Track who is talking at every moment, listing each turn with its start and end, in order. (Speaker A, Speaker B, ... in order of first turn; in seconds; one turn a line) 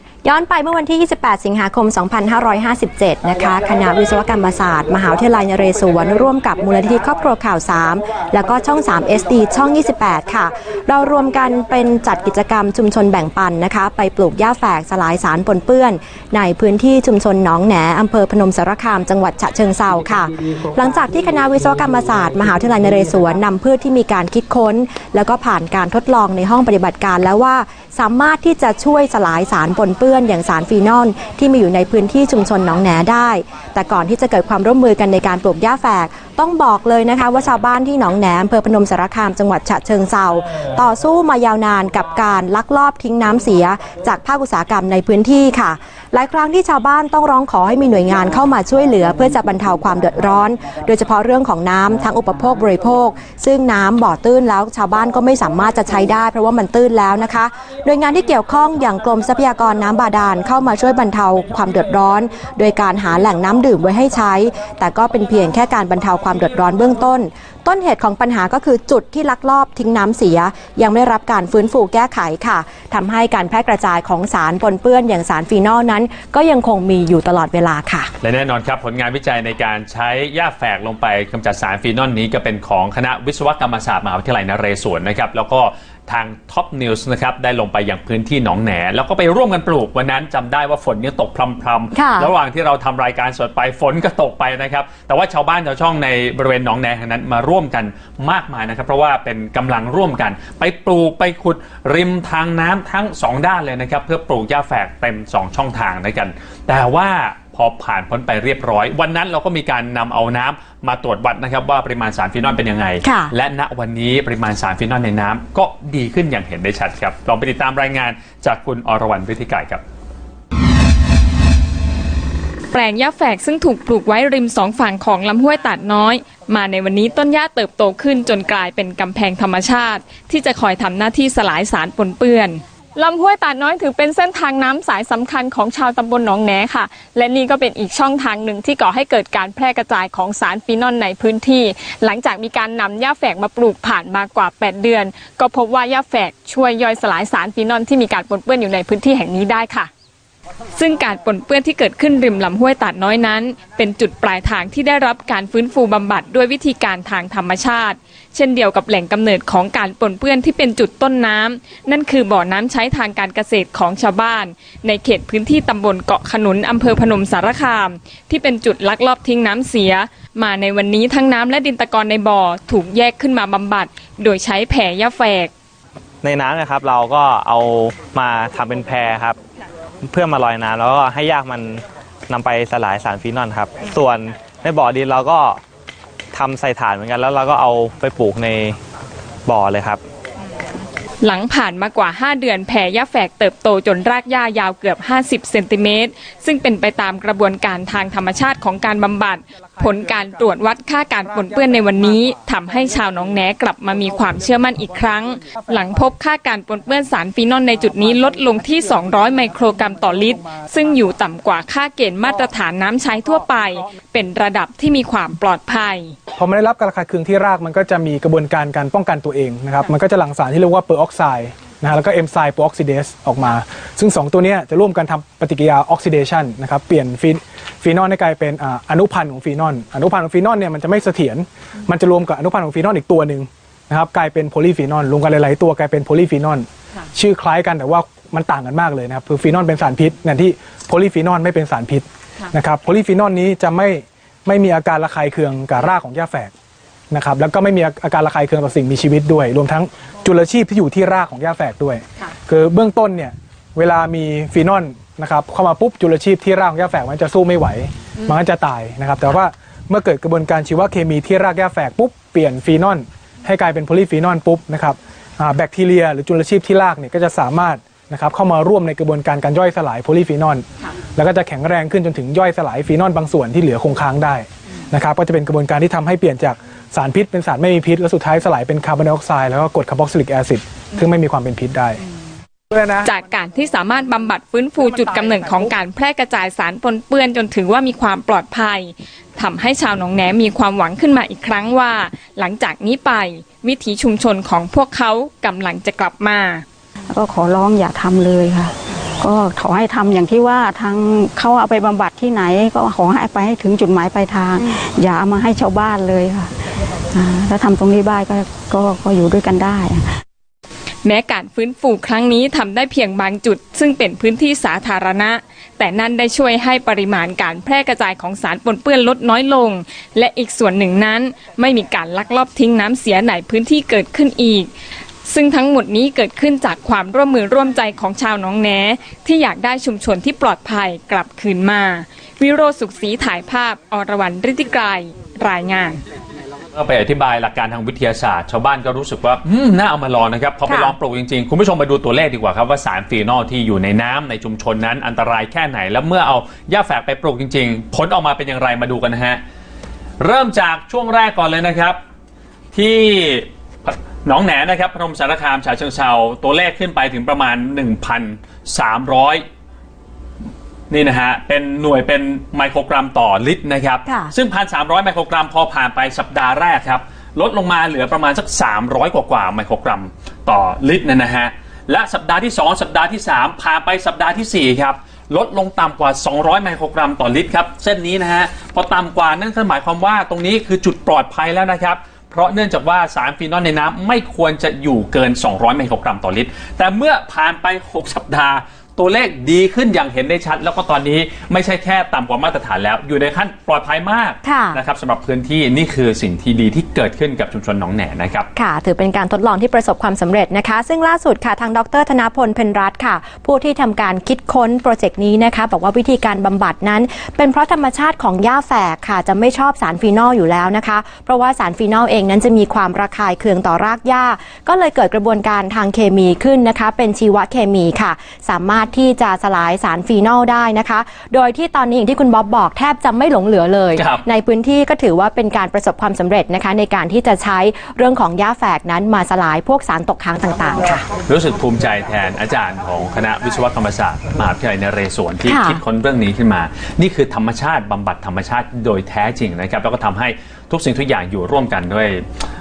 Speaker A: 0.2-78.1
Speaker B: 78.2-119.8
Speaker A: 91.9-92.3
Speaker A: 113.0-113.3
Speaker C: 122.7-149.9
Speaker C: 150.8-175.5
Speaker D: 176.2-179.4
Speaker D: 180.0-185.6
Speaker D: 186.3-188.8
Speaker D: 189.5-190.0
Speaker C: 191.2-216.1
Speaker E: 216.4-246.5
Speaker E: 247.1-270.6
Speaker E: 271.2-282.0
Speaker E: 282.7-283.1
Speaker C: 283.0-296.6
Speaker F: 297.1-306.5
Speaker F: 307.1-310.1
Speaker C: 311.0-324.7
Speaker C: 325.3-336.0
Speaker B: 336.7-349.4
Speaker A: 340.7-340.9
Speaker B: 350.2-352.0
Speaker B: 352.7-359.4
Speaker B: 360.9-398.5
Speaker A: 364.1-364.3
Speaker A: 394.4-394.8
Speaker A: 398.6-431.1
Speaker B: 424.0-424.2
Speaker B: 431.3-442.2
Speaker A: 435.4-435.8